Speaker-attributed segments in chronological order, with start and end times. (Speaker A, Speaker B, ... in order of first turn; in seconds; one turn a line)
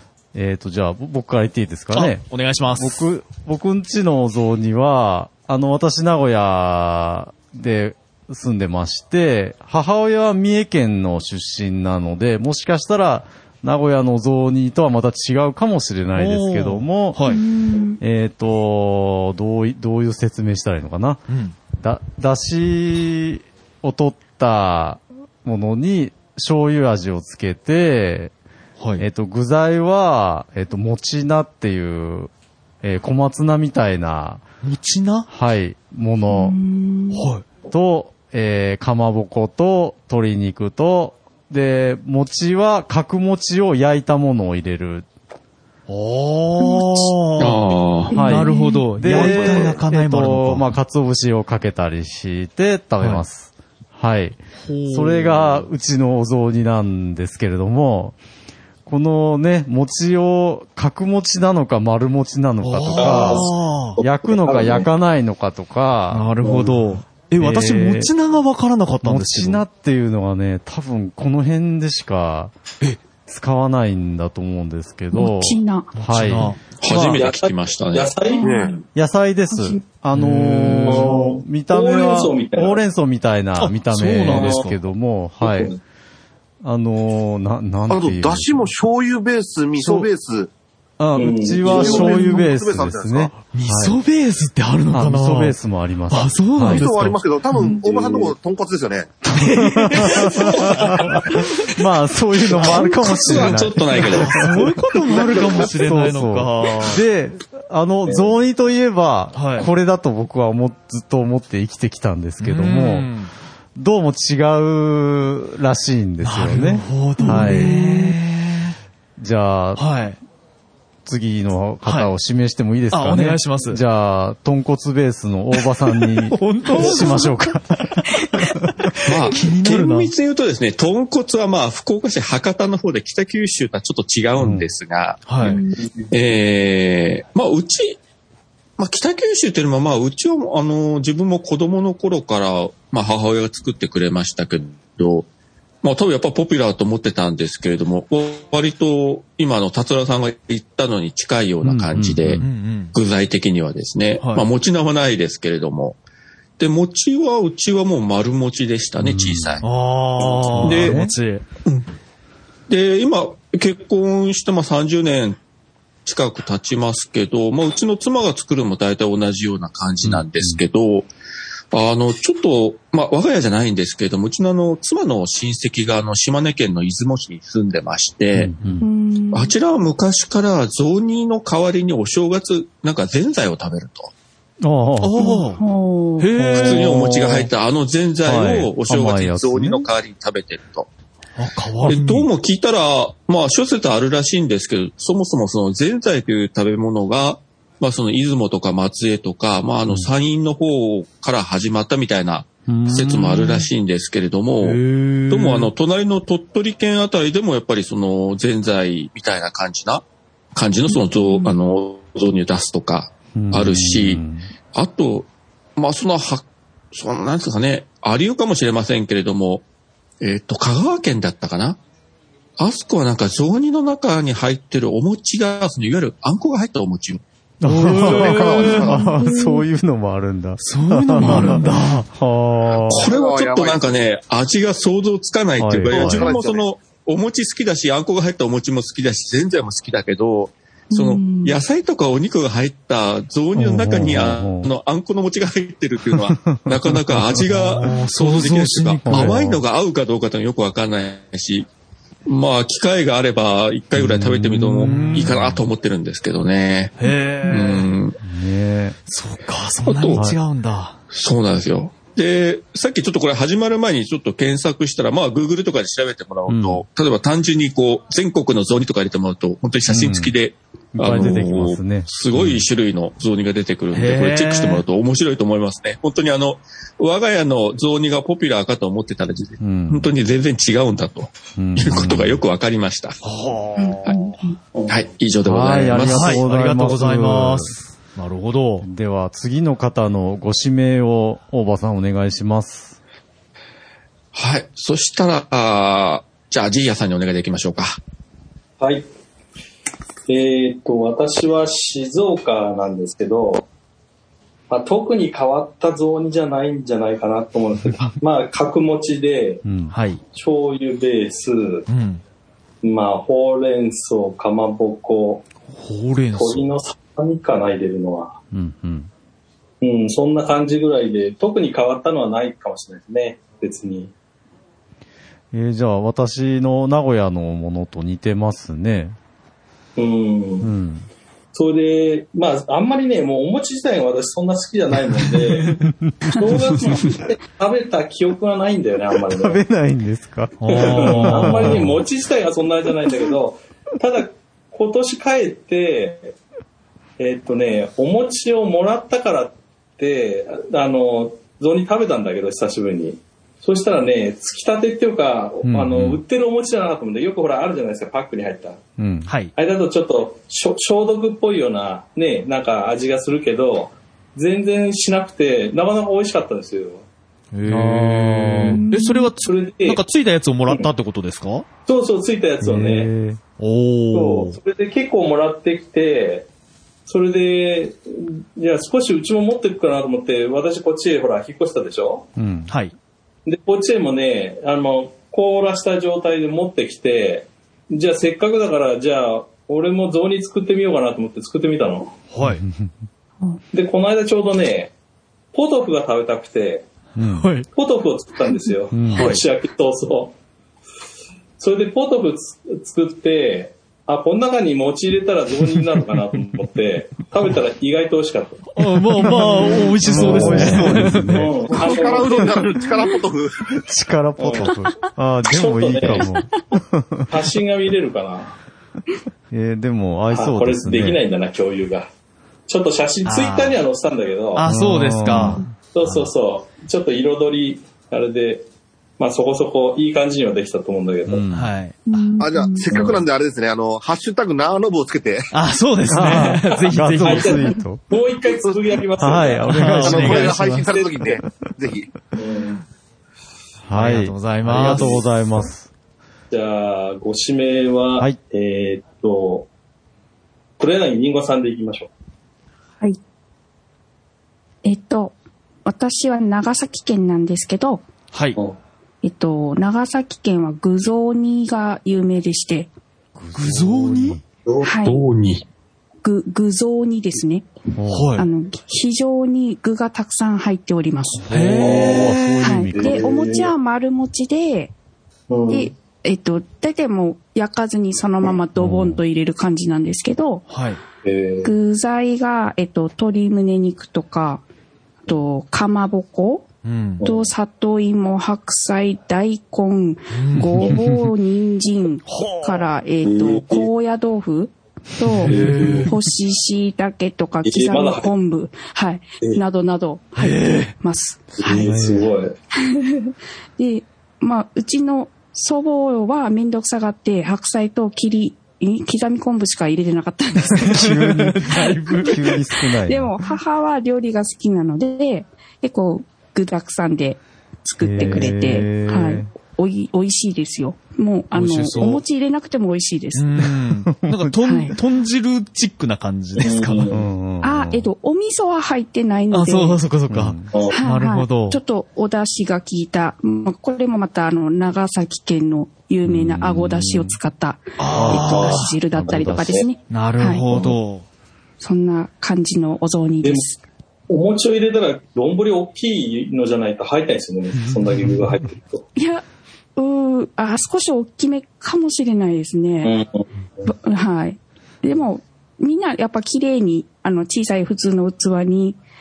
Speaker A: 0.3-17.2
Speaker B: 1.9-3.0
Speaker B: 16.1-17.4
Speaker C: 17.3-18.0
Speaker A: 18.0-28.3
Speaker B: 21.3-21.6
Speaker B: 28.8-29.1
Speaker A: 29.0-32.3
Speaker A: 32.8-34.5
Speaker B: 34.6-35.3
Speaker A: 35.3-36.6
Speaker C: 36.3-37.3
Speaker B: 37.1-37.5
Speaker A: 37.7-45.1
Speaker B: 45.9-50.7
Speaker D: 47.4-48.1
Speaker C: 48.1-48.9
Speaker A: 48.1-58.2
Speaker B: 53.0-53.2
Speaker B: 54.6-55.7
Speaker A: 58.9-66.3
Speaker B: 62.6-64.0
Speaker E: 63.0-63.5
Speaker E: 64.1-64.9
Speaker B: 66.1-69.6
Speaker E: 66.4-66.8
Speaker A: 67.4-68.1
Speaker A: 69.0-72.5
Speaker A: 73.3-77.2
Speaker C: 75.1-75.9
Speaker B: 76.0-76.6
Speaker D: 76.8-78.1
Speaker E: 76.9-78.8
Speaker C: 78.3-78.8
Speaker F: 78.4-78.7
Speaker A: 79.0-85.8
Speaker C: 79.5-79.8
Speaker B: 80.1-81.1
Speaker E: 80.9-82.8
Speaker B: 83.6-84.6
Speaker E: 84.3-84.7
Speaker E: 85.4-85.8
Speaker A: 86.6-88.7
Speaker F: 87.9-90.5
Speaker A: 89.8-90.1
Speaker A: 91.0-94.0
Speaker E: 91.2-92.2
Speaker F: 91.6-93.4
Speaker B: 93.5-95.6
Speaker A: 94.9-96.9
Speaker B: 96.1-97.2
Speaker F: 96.7-99.2
Speaker E: 97.9-98.3
Speaker B: 99.3-101.6
Speaker A: 99.4-104.7
Speaker B: 102.5-107.0
Speaker D: 102.8-104.6
Speaker A: 105.5-113.1
Speaker E: 108.0-108.3
Speaker B: 109.3-109.7
Speaker B: 112.4-113.3
Speaker A: 113.8-117.7
Speaker B: 116.2-118.8
Speaker C: 117.2-118.2
Speaker A: 119.2-119.8
Speaker B: 119.8-120.2
Speaker A: 121.1-127.9
Speaker B: 121.8-122.1
Speaker B: 122.9-123.8
Speaker B: 126.1-127.3
Speaker B: 128.0-130.1
Speaker D: 129.1-135.3
Speaker A: 134.4-134.7
Speaker B: 135.3-135.6
Speaker C: 135.4-135.8
Speaker D: 136.1-138.0
Speaker D: 138.8-145.3
Speaker D: 145.8-156.0
Speaker A: 151.6-152.4
Speaker B: 152.4-152.9
Speaker B: 154.2-154.5
Speaker D: 156.6-159.7
Speaker A: 159.0-159.6
Speaker B: 159.6-161.4
Speaker D: 160.3-161.0
Speaker A: 160.5-161.1
Speaker D: 162.7-165.4
Speaker D: 166.1-171.1
Speaker A: 170.0-170.6
Speaker D: 171.7-178.5
Speaker A: 178.3-178.9
Speaker C: 178.8-179.5
Speaker D: 179.3-184.1
Speaker A: 184.6-185.4
Speaker B: 185.0-185.6
Speaker C: 185.2-186.5
Speaker B: 186.2-186.8
Speaker A: 186.4-187.5
Speaker D: 186.6-190.9
Speaker A: 188.2-189.9
Speaker B: 191.4-192.3
Speaker D: 191.8-210.0
Speaker A: 202.7-203.7
Speaker B: 204.6-205.7
Speaker D: 210.6-219.7
Speaker C: 210.9-211.5
Speaker A: 213.3-214.5
Speaker D: 220.2-221.8
Speaker D: 222.6-227.2
Speaker B: 227.6-229.0
Speaker A: 227.6-233.1
Speaker F: 228.0-229.1
Speaker C: 228.8-229.7
Speaker B: 230.6-232.1
Speaker D: 232.9-251.7
Speaker F: 233.0-234.0
Speaker A: 235.6-236.3
Speaker F: 235.9-236.7
Speaker C: 240.9-241.6
Speaker A: 243.6-244.7
Speaker A: 246.1-246.8
Speaker B: 247.4-249.4
Speaker A: 249.0-249.6
Speaker D: 252.3-258.2
Speaker A: 253.9-255.5
Speaker B: 254.8-255.6
Speaker B: 257.0-257.9
Speaker A: 258.2-259.0
Speaker B: 259.1-261.0
Speaker D: 259.9-260.2
Speaker D: 261.1-283.2
Speaker A: 266.5-266.8
Speaker A: 269.9-270.3
Speaker A: 270.9-272.6
Speaker B: 273.9-274.8
Speaker A: 279.6-280.1
Speaker A: 281.6-282.4
Speaker B: 283.2-284.3
Speaker C: 283.8-284.6
Speaker D: 284.9-286.5
Speaker A: 285.4-287.7
Speaker B: 286.0-288.9
Speaker A: 288.8-293.0
Speaker D: 294.3-298.0
Speaker E: 298.8-299.1
Speaker E: 300.3-303.7
Speaker E: 304.7-309.6
Speaker A: 309.6-309.9
Speaker B: 309.9-310.2
Speaker E: 310.3-311.9
Speaker B: 311.9-312.2
Speaker E: 312.8-315.5
Speaker B: 315.7-316.7
Speaker E: 316.3-318.4
Speaker A: 318.5-319.1
Speaker E: 319.8-324.1
Speaker A: 325.5-329.2
Speaker E: 330.0-330.7
Speaker A: 330.6-331.1
Speaker E: 331.5-335.8
Speaker A: 336.1-336.4
Speaker E: 336.3-339.6
Speaker A: 339.3-341.9
Speaker B: 340.6-342.0
Speaker E: 340.7-346.4
Speaker E: 347.2-358.8
Speaker A: 355.6-356.2
Speaker A: 359.0-359.3
Speaker B: 359.3-359.5
Speaker E: 359.6-367.1
Speaker B: 367.5-371.7
Speaker A: 367.6-368.8
Speaker C: 368.7-369.3
Speaker E: 369.4-370.0
Speaker E: 371.9-373.1
Speaker A: 372.6-373.4
Speaker B: 373.6-374.6
Speaker E: 374.1-376.5
Speaker E: 377.1-382.3
Speaker A: 382.4-382.7
Speaker B: 382.7-382.9
Speaker E: 383.5-392.2
Speaker B: 392.3-392.6
Speaker A: 392.4-392.9
Speaker E: 393.7-394.9
Speaker E: 395.5-396.9
Speaker A: 397.2-397.5
Speaker B: 397.2-397.7
Speaker E: 397.7-400.4
Speaker A: 398.9-399.4
Speaker B: 399.1-399.4
Speaker E: 401.6-408.6
Speaker B: 408.8-411.5
Speaker E: 410.0-412.6
Speaker A: 410.0-411.7
Speaker F: 411.7-413.8
Speaker C: 411.8-412.1
Speaker C: 412.8-413.1
Speaker A: 413.8-417.4
Speaker E: 414.4-414.8
Speaker E: 415.5-416.3
Speaker E: 417.3-418.6
Speaker A: 419.5-421.2
Speaker E: 420.3-422.1
Speaker E: 422.7-424.7
Speaker B: 423.2-423.8
Speaker B: 424.5-426.3
Speaker A: 424.7-425.6
Speaker E: 425.9-428.6
Speaker E: 429.2-431.4
Speaker A: 431.3-431.7
Speaker B: 431.5-432.0
Speaker C: 432.1-432.9
Speaker F: 432.4-435.5
Speaker B: 435.5-437.6
Speaker A: 436.1-438.0
Speaker E: 437.2-439.9
Speaker A: 439.2-440.6
Speaker B: 439.7-441.0
Speaker F: 440.0-442.1
Speaker E: 442.4-442.8
Speaker A: 443.9-445.9
Speaker B: 443.9-445.2
Speaker E: 444.8-445.2
Speaker E: 446.5-449.7
Speaker E: 450.8-452.1
Speaker C: 454.8-458.1
Speaker B: 458.3-458.6
Speaker C: 459.2-462.9
Speaker A: 463.4-464.4
Speaker B: 463.6-464.4
Speaker C: 464.8-465.2
Speaker D: 465.0-465.6
Speaker C: 466.2-467.7
Speaker A: 468.0-468.3
Speaker B: 468.1-468.5
Speaker C: 468.4-471.4
Speaker B: 471.5-472.7
Speaker A: 471.5-473.3
Speaker E: 471.8-472.3
Speaker C: 472.6-474.9
Speaker E: 472.9-473.7
Speaker E: 475.5-475.9
Speaker C: 475.7-480.6
Speaker A: 478.8-479.2
Speaker B: 480.7-481.0
Speaker E: 481.2-481.7
Speaker C: 481.6-484.6
Speaker C: 485.3-486.7
Speaker B: 486.8-487.2
Speaker E: 487.2-487.5
Speaker C: 487.2-501.9
Speaker B: 490.3-490.9
Speaker B: 492.3-492.9
Speaker E: 493.2-493.9
Speaker B: 495.4-496.1
Speaker E: 495.4-496.1
Speaker E: 497.6-498.3
Speaker B: 500.4-500.9
Speaker E: 501.6-502.5
Speaker A: 501.7-502.3
Speaker C: 502.7-511.1
Speaker A: 510.8-513.3
Speaker B: 510.9-512.5
Speaker C: 513.1-523.7
Speaker A: 518.0-519.5
Speaker B: 521.5-522.2
Speaker B: 523.4-527.2
Speaker A: 524.1-524.4
Speaker C: 524.6-525.0
Speaker E: 526.6-527.2
Speaker A: 527.1-528.1
Speaker C: 527.6-530.0
Speaker B: 529.5-531.8
Speaker A: 530.3-530.7
Speaker E: 530.7-531.0
Speaker C: 530.9-540.7
Speaker A: 536.2-537.4
Speaker B: 538.0-538.9
Speaker A: 538.1-539.8
Speaker E: 538.3-538.8
Speaker E: 539.6-539.8
Speaker B: 540.1-541.3
Speaker C: 541.8-543.8
Speaker E: 544.3-549.1
Speaker C: 549.2-549.4
Speaker C: 550.0-553.1
Speaker E: 553.0-553.5
Speaker C: 553.9-559.0